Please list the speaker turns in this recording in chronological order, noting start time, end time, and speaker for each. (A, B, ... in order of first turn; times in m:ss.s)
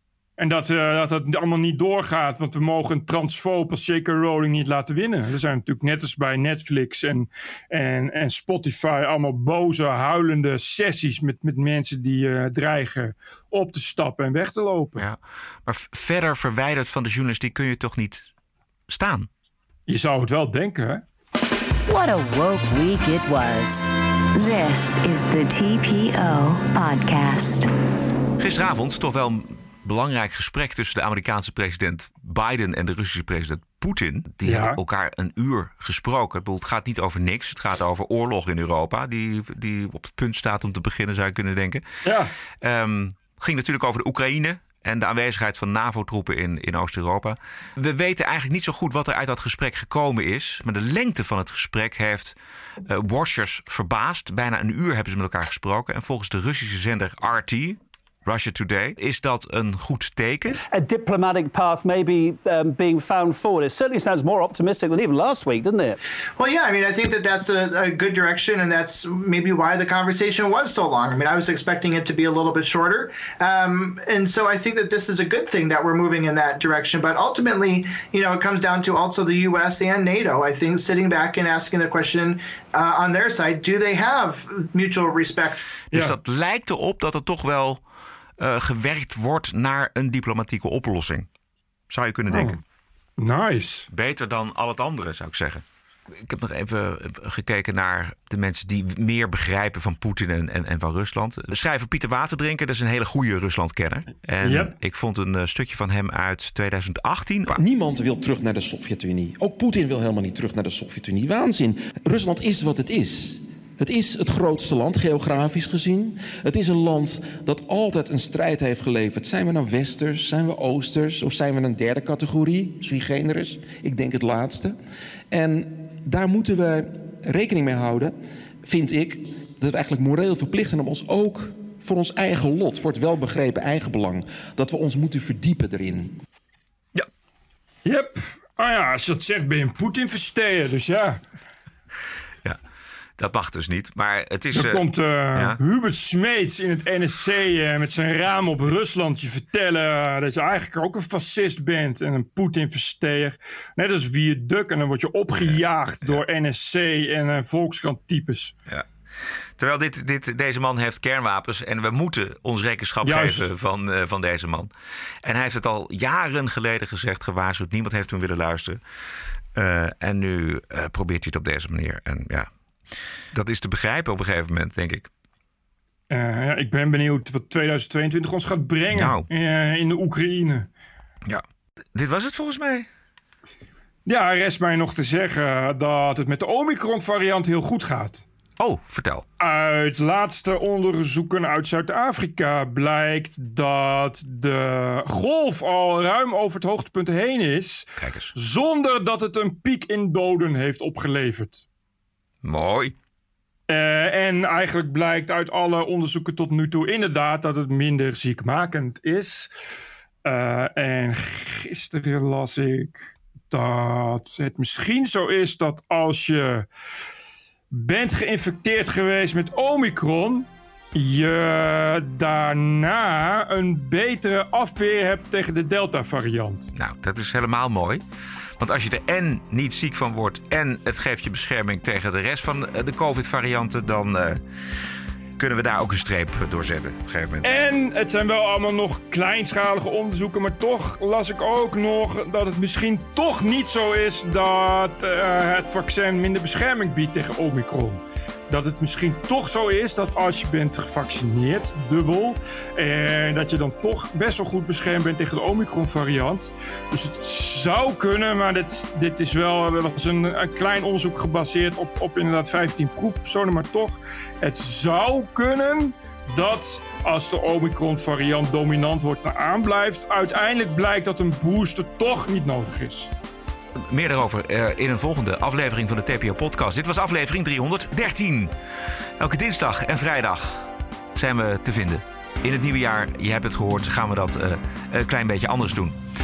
0:00.4-0:15.0 A
0:15.0-0:18.3 B
0:18.9-0:19.3 B
0:19.9-0:21.0 A
0:21.9-0:23.9 C
0:24.4-0:27.7 D
0:28.4-0:41.8 B
0:34.4-0:34.8 A
0:42.0-0:42.3 A
0:42.6-1:00.6 B
1:00.7-1:06.0 E
1:06.4-1:25.6 F
1:25.9-1:27.8 B
1:28.4-1:31.3 B
1:31.9-1:32.6 B
1:32.3-1:32.6 A
1:33.2-1:33.9 A
1:33.9-1:47.6 B
1:44.4-1:44.7 A
1:47.5-2:04.8 G
2:05.3-2:16.2 G
2:17.8-2:21.2 A
2:23.2-2:25.6 B
2:24.5-2:38.5 A
2:35.4-2:36.2 B
2:39.6-2:44.7 B
2:43.0-2:43.5 A
2:45.2-2:48.8 B
2:49.6-2:52.5 B
2:53.3-2:55.1 B
2:56.1-3:00.7 A
2:58.9-2:59.3 B
3:01.2-3:02.9 B
3:04.1-3:08.3 A
3:08.6-3:09.3 B
3:09.4-3:21.7 A
3:18.0-3:18.3 B
3:22.4-3:23.0 B
3:23.7-3:29.5 A
3:30.2-3:36.7 A
3:37.7-3:46.7 A
3:46.7-3:48.0 B
3:48.6-3:54.4 B
3:55.4-3:57.5 B
3:57.4-4:33.1 A
4:33.8-4:38.6 B
4:39.2-4:46.0 B